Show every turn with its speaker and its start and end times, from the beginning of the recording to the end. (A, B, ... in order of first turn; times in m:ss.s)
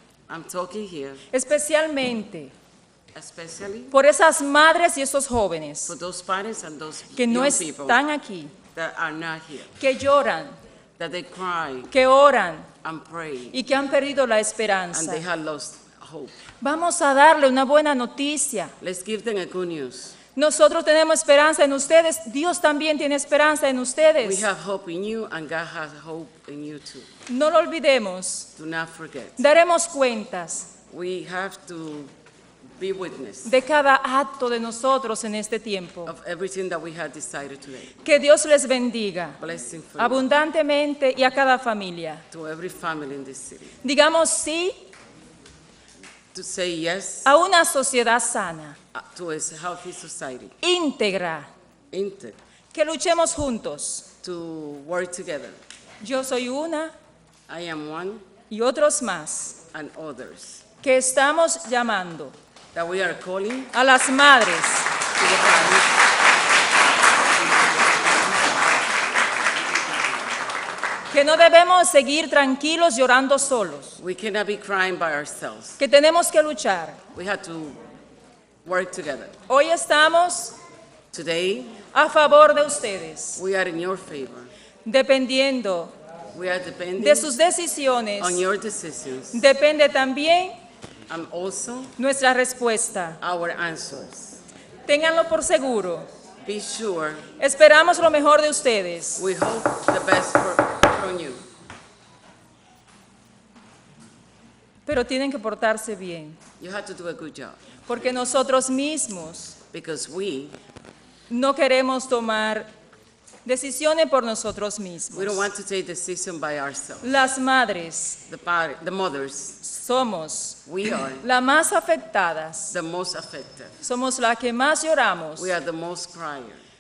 0:00.3-0:01.3 A
0:01.3-0:02.5 B
0:03.1-0:03.9 A
0:03.9-0:05.9 B
0:05.8-0:08.0 A
0:07.2-0:08.5 B
0:08.7-0:09.8 A
0:09.8-0:10.6 B
0:11.0-0:11.9 A
0:11.9-0:12.7 B
0:12.8-0:13.6 A
0:13.5-0:15.2 B
0:14.9-0:16.4 A
0:16.6-0:18.7 B
0:18.8-0:20.2 A
0:20.3-0:24.5 B
0:24.2-0:27.1 A
0:27.3-0:28.5 B
0:28.6-0:29.4 A
0:29.4-0:30.7 B
0:30.9-0:32.1 A
0:32.8-0:33.5 A
0:33.4-0:36.1 B
0:36.0-0:38.0 A
0:38.0-0:39.4 B
0:39.4-0:40.3 A
0:40.0-0:42.2 B
0:42.3-0:43.8 A
0:43.8-0:44.8 B
0:46.3-0:47.3 A
0:47.3-0:48.8 B
0:48.9-0:50.6 A
0:50.6-0:51.5 B
0:51.9-0:52.4 A
0:52.7-0:54.1 B
0:54.2-0:55.6 A
0:56.0-0:56.9 B
0:57.5-0:58.2 A
0:58.5-0:59.6 B
0:59.7-1:00.7 A
1:00.8-1:02.3 B
1:02.7-1:03.7 A
1:03.7-1:04.9 B
1:05.1-1:05.9 A
1:11.1-1:13.9 B
1:14.0-1:15.8 A
1:15.8-1:17.0 B
1:17.1-1:17.8 A
1:18.6-1:19.4 A
1:19.5-1:20.6 B
1:21.1-1:21.8 A
1:21.9-1:23.4 B
1:23.3-1:24.5 A
1:24.8-1:25.9 B
1:26.3-1:27.3 A
1:27.0-1:28.4 B
1:28.2-1:29.4 A
1:29.3-1:30.6 B
1:31.1-1:32.0 A
1:32.0-1:33.2 B
1:33.2-1:34.4 A
1:34.9-1:36.1 B
1:36.4-1:37.3 A
1:37.4-1:39.2 B
1:39.2-1:41.4 A
1:44.9-1:46.4 B
1:46.6-1:47.6 A
1:47.9-1:49.6 B
1:49.7-1:50.6 A
1:51.3-1:52.7 B
1:53.4-1:55.5 B
1:55.1-1:57.1 A
1:57.0-1:58.2 B
1:58.2-1:59.6 A
1:59.6-2:00.6 B
2:00.6-2:01.2 A
2:01.2-2:02.7 B
2:02.7-2:03.8 A
2:03.8-2:05.5 B
2:05.4-2:06.6 A